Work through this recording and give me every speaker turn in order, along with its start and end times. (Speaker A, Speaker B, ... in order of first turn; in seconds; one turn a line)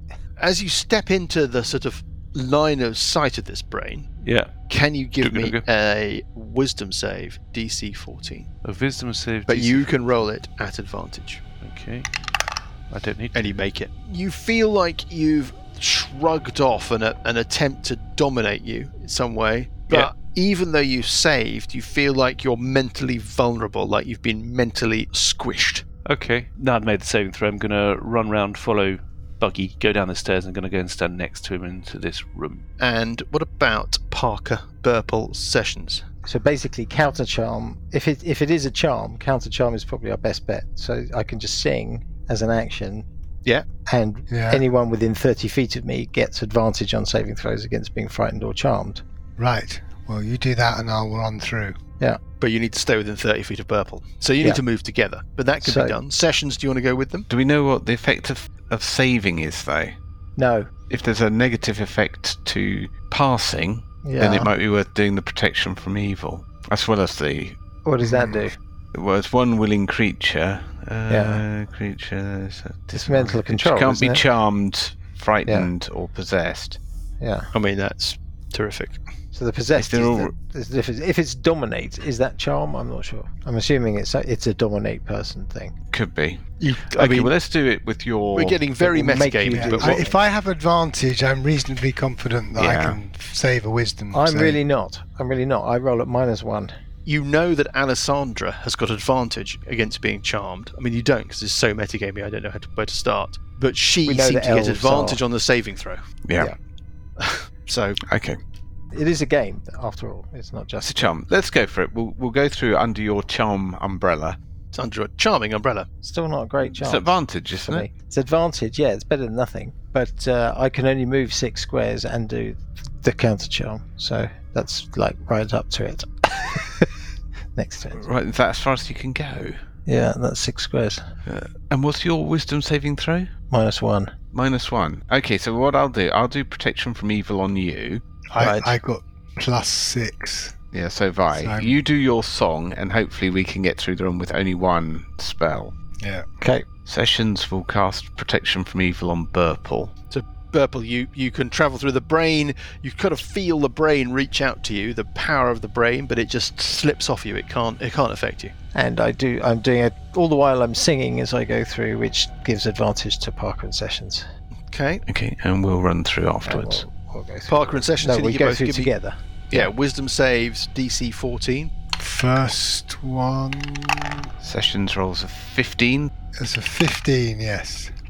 Speaker A: 0.4-4.1
Speaker B: 4.2-4.5
Speaker A: 4.7-8.5
Speaker B: 5.2-5.6
Speaker B: 8.6-9.9
Speaker A: 9.4-11.4
Speaker B: 11.6-12.1
Speaker B: 12.9-13.6
Speaker A: 13.3-25.8
Speaker B: 26.1-32.6
Speaker A: 32.8-36.0
Speaker C: 36.2-43.0
Speaker C: 43.9-49.0
Speaker D: 44.3-44.6
Speaker D: 49.4-51.8
Speaker A: 52.4-57.3
Speaker C: 55.6-56.0
Speaker E: 57.3-60.0
Speaker C: 60.4-60.7
Speaker E: 60.9-67.6
Speaker C: 64.0-64.5
Speaker C: 67.8-68.5
Speaker D: 68.0-68.3
Speaker E: 68.9-76.8
Speaker C: 71.1-71.4
Speaker C: 72.9-74.2
Speaker C: 77.2-77.5
Speaker A: 77.5-79.0
Speaker C: 79.3-85.7
Speaker E: 79.7-80.3
Speaker E: 85.9-88.6
Speaker A: 86.6-87.3
Speaker A: 88.3-90.0
Speaker C: 88.8-90.2
Speaker D: 89.5-94.6
Speaker E: 92.5-93.0
Speaker C: 94.1-96.7
Speaker A: 97.0-106.0
Speaker C: 104.0-105.2
Speaker E: 106.2-106.5
Speaker A: 107.2-108.0
Speaker E: 108.0-108.4
Speaker C: 108.9-111.1
Speaker E: 110.8-114.4
Speaker A: 114.7-115.9
Speaker C: 116.0-126.9
Speaker E: 116.6-117.9
Speaker C: 127.5-128.0
Speaker E: 127.9-129.6
Speaker C: 129.8-131.0
Speaker E: 131.2-133.3
Speaker C: 133.5-134.1
Speaker E: 134.3-138.0
Speaker D: 138.3-140.5
Speaker C: 138.4-138.8
Speaker E: 140.7-145.7
Speaker D: 141.3-141.8
Speaker D: 146.0-146.2
Speaker E: 146.8-149.9
Speaker A: 150.1-158.5
Speaker C: 158.7-164.2
Speaker A: 164.7-165.0
Speaker E: 165.1-166.8
Speaker C: 166.4-169.7
Speaker A: 167.5-168.9
Speaker A: 169.5-171.7
Speaker D: 172.0-174.3
Speaker E: 174.4-176.1
Speaker D: 176.4-177.9